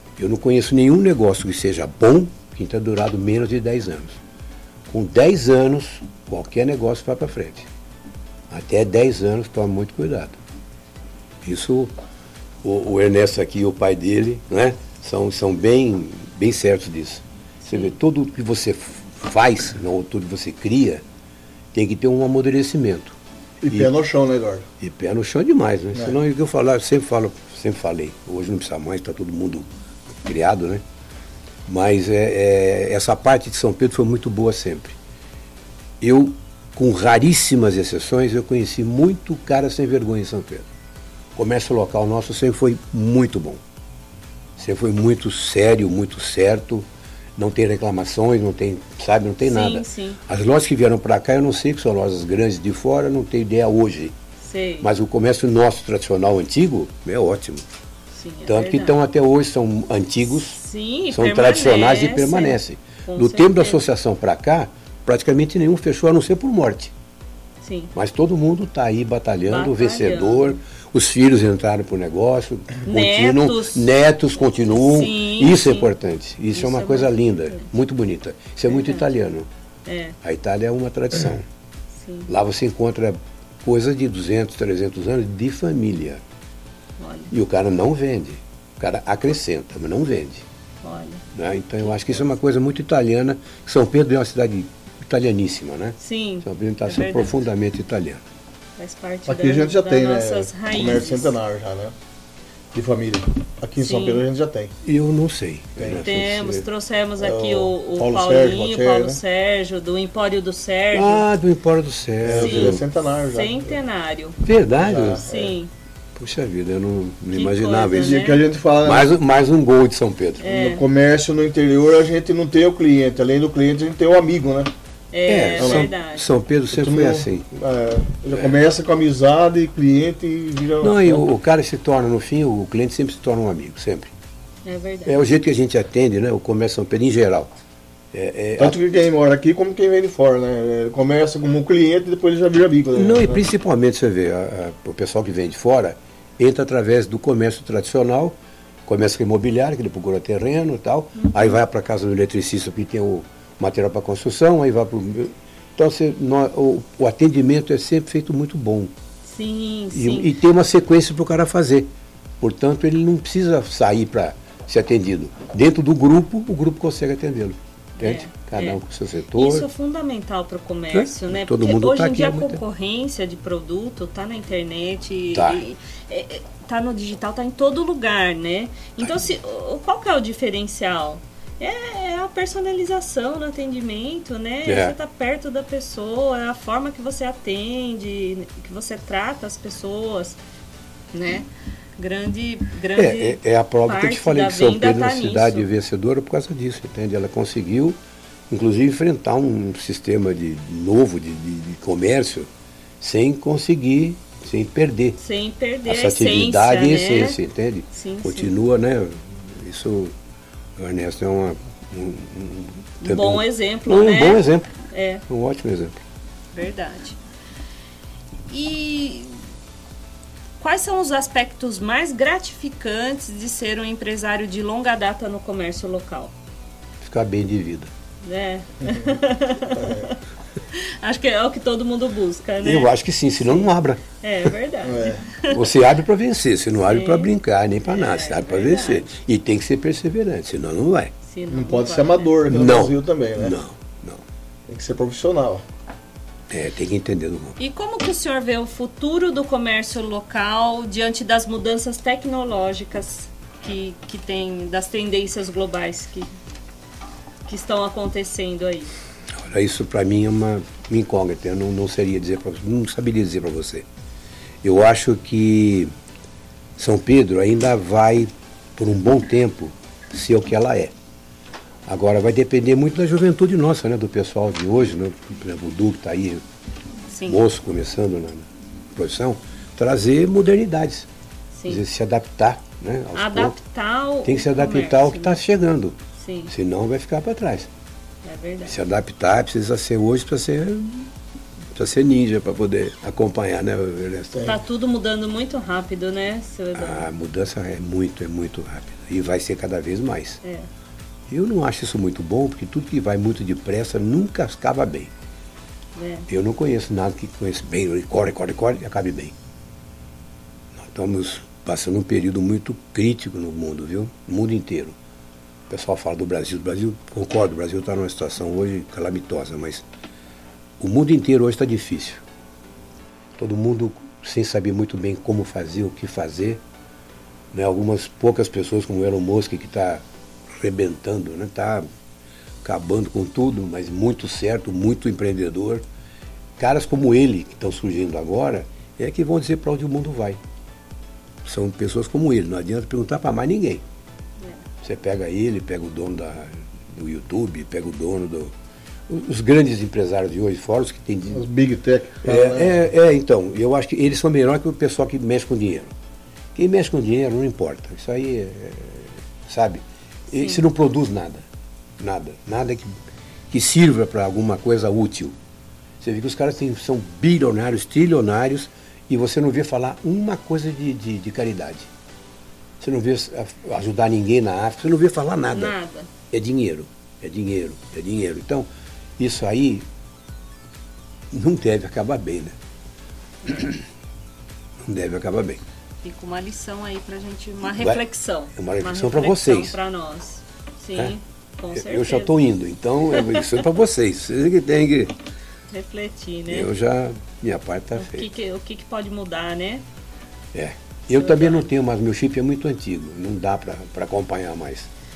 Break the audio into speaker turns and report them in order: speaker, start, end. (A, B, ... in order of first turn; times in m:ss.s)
0:00.2-0:04.2 A
0:04.9-0:07.7 A
0:08.5-0:10.4 A
0:11.4-0:11.9 A
0:12.6-0:21.0 A
0:17.6-0:17.9 B
0:21.7-0:23.2 A
0:23.6-0:24.7 C
0:24.8-0:29.7 A
0:30.2-0:30.8 A
0:31.6-0:35.0 A
0:36.0-0:40.7 A
0:41.4-0:43.6 A
0:44.6-0:54.1 A
0:49.4-0:50.2 B
0:54.4-0:54.9 B
0:54.8-0:57.6 A
0:58.1-0:59.0 B
0:58.5-1:00.6 A
1:00.5-1:03.8 B
1:01.1-1:06.9 A
1:07.6-1:07.9 B
1:07.9-1:19.5 A
1:09.5-1:10.6 B
1:12.8-1:13.9 B
1:14.7-1:15.9 B
1:16.5-1:17.7 B
1:18.7-1:19.0 B
1:19.8-1:20.2 B
1:20.2-1:21.4 A
1:22.0-1:22.3 B
1:22.3-1:26.2 A
1:27.0-1:27.3 B
1:27.3-1:30.4 A
1:30.8-1:31.2 B
1:31.3-1:38.2 A
1:36.0-1:37.3 B
1:38.8-1:41.4 B
1:39.2-1:41.9 C
1:42.7-1:44.7 C
1:43.8-1:44.2 B
1:44.8-1:46.6 A
1:45.8-1:46.0 C
1:46.0-1:51.2 B
1:47.2-1:49.2 C
1:50.9-1:52.8 A
1:52.2-1:53.8 C
1:52.3-1:54.4 B
1:54.4-1:55.2 A
1:54.8-1:55.6 C
1:55.2-1:55.7 B
1:56.2-2:00.4 A
1:57.3-1:58.4 B
1:57.9-1:59.1 C
2:00.4-2:00.8 B
2:00.4-2:04.7 C
2:05.1-2:06.3 B
2:05.3-2:07.4 A
2:05.6-2:05.9 C
2:06.7-2:11.3 C
2:08.3-2:08.6 A
2:10.8-2:14.1 A
2:14.6-2:15.2 B
2:15.0-2:17.5 A
2:18.1-2:18.8 A
2:18.6-2:23.4 C
2:22.9-2:38.9 A
2:31.2-2:31.5 B
2:39.3-2:40.3 B
2:39.9-2:41.9 A
2:42.4-2:49.7 A
2:48.0-2:48.8 B
2:49.3-3:10.4 B
2:50.9-2:52.6 A
2:55.3-2:55.6 A
3:04.6-3:04.9 A
3:11.1-3:15.6 B
3:12.9-3:18.0 A
3:18.5-3:22.5 A
3:23.0-3:25.2 A
3:25.2-3:27.4 B
3:25.8-3:30.1 A
3:27.9-3:28.5 B
3:30.8-3:34.7 A
3:33.0-3:35.2 B
3:35.3-3:36.0 A
3:36.5-3:37.2 B
3:38.5-3:39.3 B
3:40.6-3:46.3 B
3:47.0-3:47.9 A
3:48.2-3:50.2 B
3:49.8-3:50.0 C
3:50.7-3:55.6 B
3:52.6-3:54.0 A
3:54.8-3:55.2 C
3:55.5-4:01.1 A
3:56.8-3:57.3 B
3:57.9-3:59.1 B
4:01.3-4:02.3 B
4:01.5-4:03.6 C
4:02.5-4:04.2 A
4:04.7-4:05.6 C
4:06.5-4:07.6 A
4:07.6-4:16.3 B
4:17.5-4:18.9 B
4:19.4-4:23.8 A
4:24.6-4:25.9 A
4:26.8-4:30.9 A
4:31.8-4:36.4 A
4:37.1-4:37.4 B
4:37.2-4:41.1 A
4:41.6-4:41.8 B
4:41.7-4:43.6 A
4:43.1-4:45.4 B
4:44.2-4:47.7 A
4:46.2-4:46.5 B
4:48.2-4:48.8 B
4:48.6-4:51.1 A
4:51.7-4:54.6 A
4:54.4-4:57.1 B
4:56.7-5:00.4 A
5:00.4-5:00.7 B
5:01.3-5:05.1 A
5:06.0-5:06.3 B
5:06.3-5:09.3 A
5:10.7-5:15.0 A
5:15.7-5:19.9 A
5:20.8-5:22.2 A
5:23.4-5:26.6 A
5:27.5-5:31.8 A
5:32.6-5:35.8 A
5:36.6-5:40.4 A
5:41.4-5:43.8 A
5:44.8-5:48.5 A
5:49.1-5:51.5 A
5:51.3-5:52.7 C
5:52.2-5:55.9 A
5:56.5-6:01.4 A
6:00.3-6:00.6 B
6:02.0-6:02.9 A
6:03.5-6:05.3 A
6:06.0-6:11.9 A
6:12.8-6:15.7 A
6:15.5-6:16.1 B
6:16.3-6:19.8 A
6:21.3-6:22.5 A
6:23.4-6:23.8 A
6:24.8-6:25.6 A
6:26.0-6:32.3 B
6:27.7-6:28.0 A
6:28.5-6:29.8 A
6:31.7-6:35.1 A
6:33.1-6:33.4 B
6:35.7-6:36.7 B
6:36.5-6:38.3 A
6:38.0-6:39.8 B
6:40.5-6:44.9 A
6:41.1-6:41.7 B